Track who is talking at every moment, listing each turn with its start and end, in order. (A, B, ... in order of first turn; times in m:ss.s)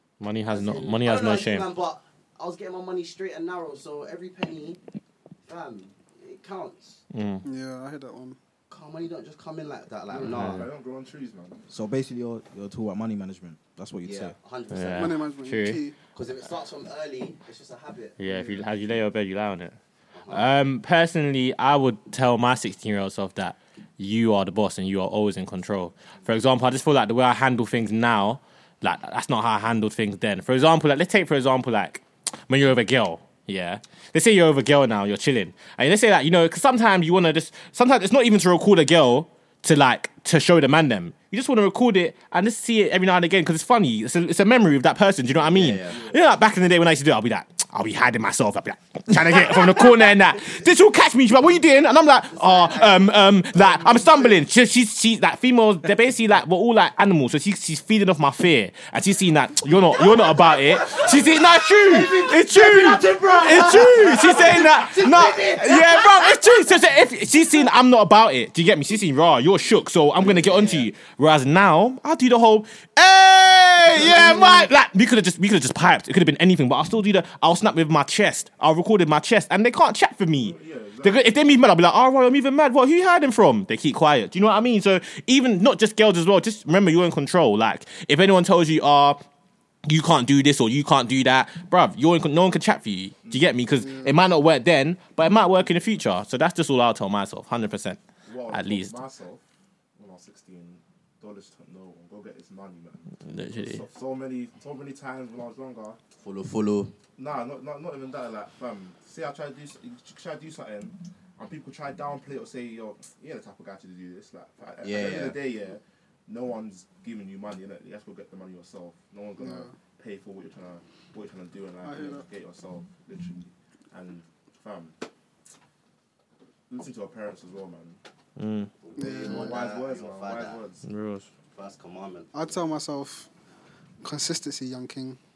0:00.2-0:01.7 A
0:00.5-0:04.8 B
0:05.4-0:07.0 B
0:07.1-0:07.4 A
0:07.4-0:08.4 C
0:08.7-0:10.6 B
0:10.1-0:11.6 D
0:10.2-0:10.7 A
0:11.7-0:14.4 E
0:14.0-0:15.1 B
0:14.7-0:15.8 A
0:15.0-0:15.9 C
0:16.1-0:18.2 B
0:18.2-0:19.8 A
0:18.2-0:18.7 D
0:20.1-0:20.5 B
0:20.3-1:29.2 A
0:45.5-0:46.0 B
0:45.9-0:46.2 D
0:52.3-0:53.2 B
0:53.6-0:54.3 D
0:53.8-0:54.2 B
1:00.4-1:06.6 B
1:10.2-1:10.9 B
1:14.0-1:14.6 B
1:20.3-1:21.7 D
1:29.9-1:38.0 A
1:33.2-1:33.5 D
1:38.3-1:39.4 D
1:38.5-1:38.9 A
1:40.0-1:46.0 D
1:43.2-1:43.8 A
1:46.2-1:47.0 B
1:47.2-2:05.0 D
1:54.8-1:55.4 B
1:59.4-1:59.7 C
2:01.8-2:02.2 C
2:06.7-2:08.0 D
2:08.4-2:08.7 A
2:08.8-2:10.6 B
2:09.0-2:09.6 C
2:09.0-2:10.9 D
2:10.8-2:11.3 A
2:11.5-2:12.3 B
2:12.3-2:13.3 C
2:14.0-2:15.2 C